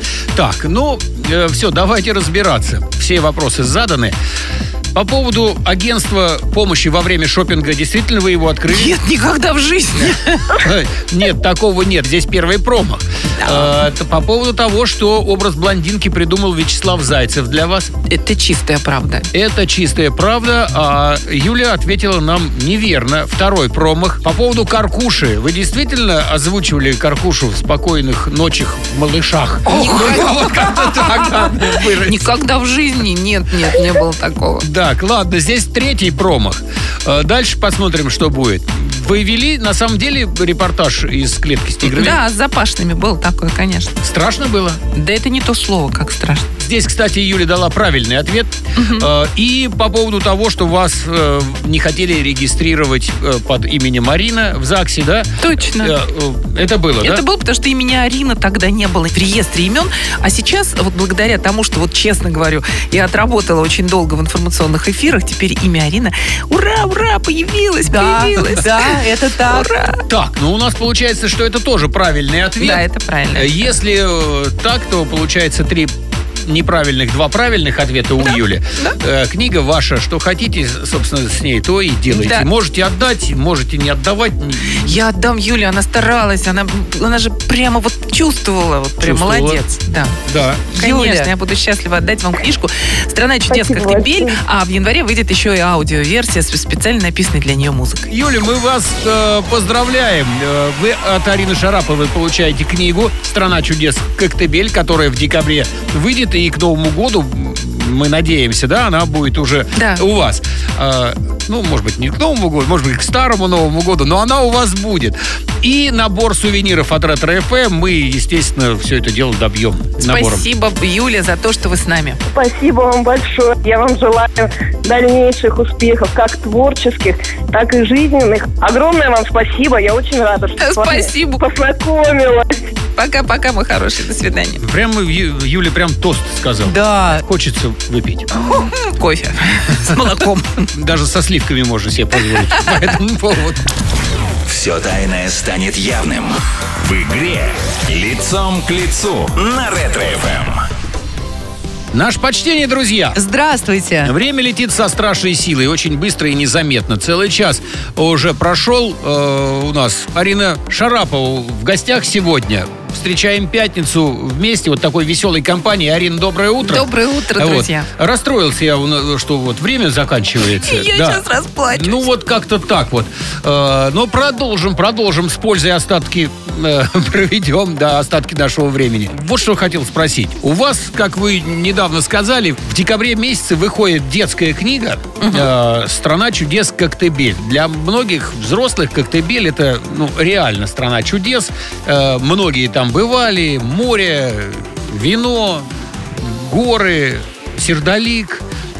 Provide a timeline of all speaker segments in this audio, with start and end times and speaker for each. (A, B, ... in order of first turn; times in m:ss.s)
0:00.3-0:04.1 A
0:04.9-0:08.9 A
0:08.7-0:10.6 B
0:10.0-0:17.9 A
0:13.4-0:13.7 B
0:18.0-0:19.3 B
0:19.3-0:32.3 A
0:29.6-0:31.5 B
0:32.0-0:34.7 B
0:34.6-0:42.2 A
0:41.8-0:44.0 B
0:44.0-0:44.8 A
0:44.9-0:46.5 B
0:46.6-0:57.2 A
0:48.8-0:49.1 B
0:55.4-0:55.9 B
0:57.0-1:10.0 B
1:07.8-1:09.7 C
1:10.1-1:15.9 A
1:12.6-1:13.7 B
1:16.4-1:25.0 A
1:22.1-1:22.5 B
1:24.7-1:30.2 B
1:29.0-1:29.6 A
1:30.2-1:30.7 A
1:30.7-1:38.1 B
1:30.8-1:31.3 C
1:33.5-1:34.4 D
1:38.1-2:00.4 A
1:49.7-1:50.0 B
2:00.0-2:02.2 B
2:02.3-2:12.7 D
2:10.6-2:11.4 B
2:13.0-2:14.6 B
2:14.6-2:18.3 A
2:16.6-2:17.2 C
2:18.3-2:20.7 B
2:20.7-2:23.6 A
2:22.3-2:22.7 B
2:24.4-2:30.6 E
2:31.9-2:33.2 A
2:33.1-2:34.1 C
2:34.0-3:18.4 A
2:46.6-2:47.9 B
2:50.5-2:52.0 B
3:05.2-3:05.5 B